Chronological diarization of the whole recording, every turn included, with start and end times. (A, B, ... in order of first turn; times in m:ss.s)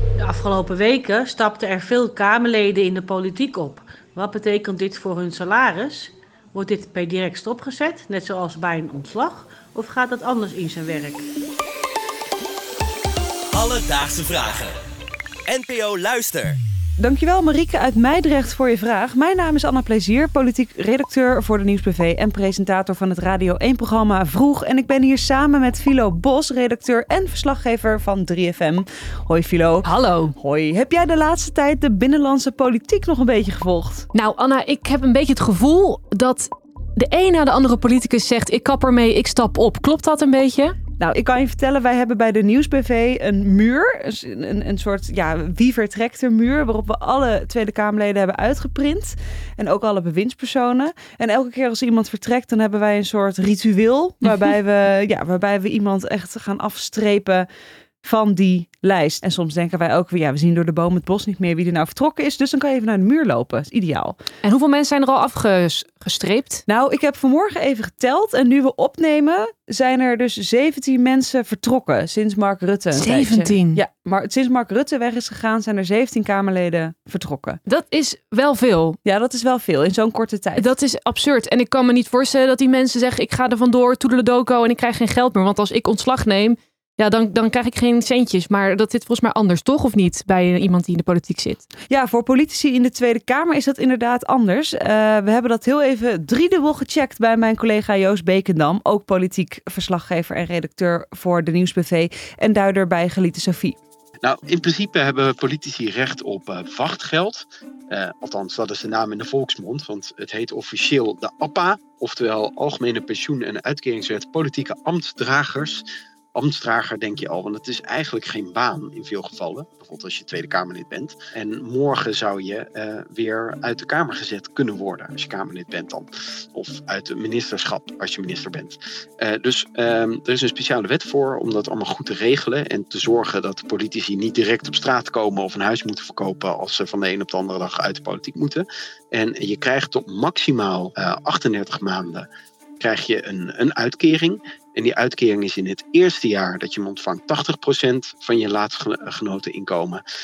0:00.2-0:11.2 A
0:13.5-0:14.7 B
0:15.5-0:16.6 B
0:17.0-0:34.1 C
0:29.8-0:30.3 D
0:34.1-0:40.8 D
0:41.0-0:57.5 C
0:58.0-1:04.2 C
1:04.4-1:06.6 D
1:06.7-1:17.6 C
1:12.9-1:13.8 D
1:17.6-1:19.0 D
1:19.0-1:20.7 C
1:20.5-1:31.7 D
1:31.9-1:43.8 C
1:44.2-2:22.3 E
2:22.8-2:30.0 E